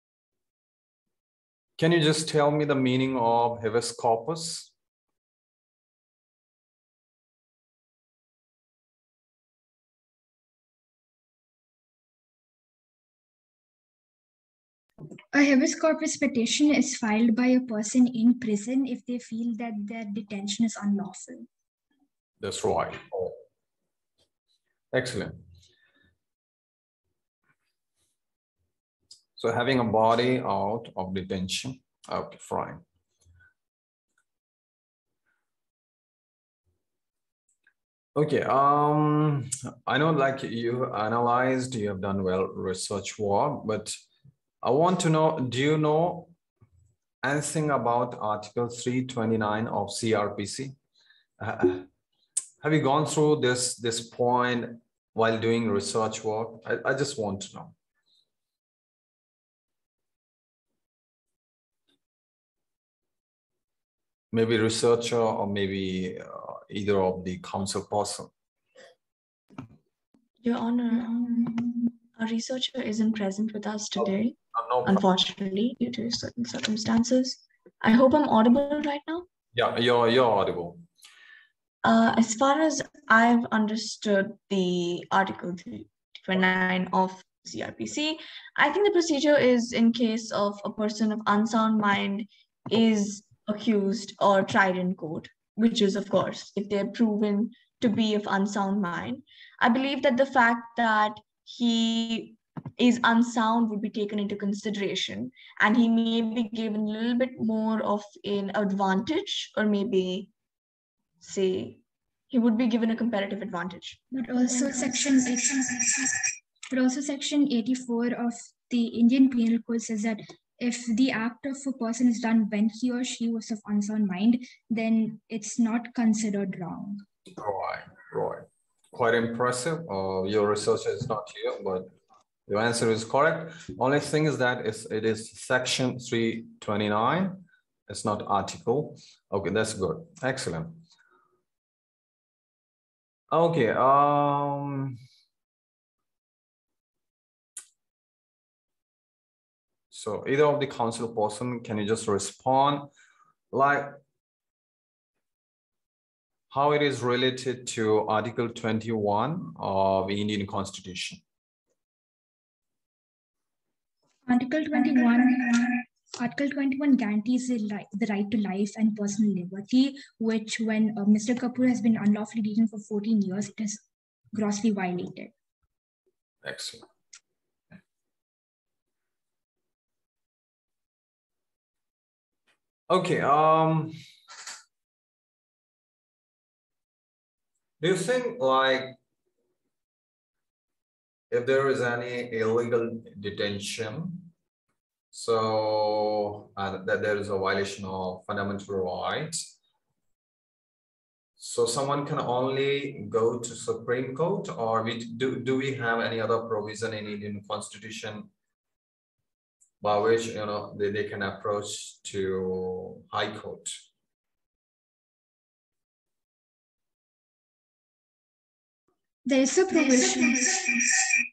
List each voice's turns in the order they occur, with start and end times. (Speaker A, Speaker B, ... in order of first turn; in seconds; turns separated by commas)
Speaker A: 1.8-4.7, Speaker B: 15.3-21.5, Speaker A: 22.4-23.4, Speaker A: 24.9-25.4, Speaker A: 29.4-32.8, Speaker A: 38.1-43.9, Speaker A: 44.6-46.3, Speaker A: 47.2-50.8, Speaker A: 51.4-51.9, Speaker A: 52.6-57.8, Speaker A: 64.3-68.3, Speaker C: 70.4-79.3, Speaker A: 74.0-75.0, Speaker A: 79.5-80.8, Speaker C: 81.8-110.3, Speaker C: 111.2-114.9, Speaker B: 114.1-127.0, Speaker A: 127.4-131.9, Speaker A: 132.5-140.8, Speaker A: 143.3-144.9, Speaker A: 149.9-152.9, Speaker A: 153.5-153.9, Speaker A: 156.5-161.2, Speaker B: 164.2-175.3, Speaker A: 176.4-176.8, Speaker A: 182.9-183.9, Speaker A: 187.8-189.0, Speaker A: 191.3-194.3, Speaker A: 195.1-199.4, Speaker A: 201.4-208.3, Speaker A: 209.8-213.7, Speaker B: 219.2-220.8, Speaker C: 220.2-220.6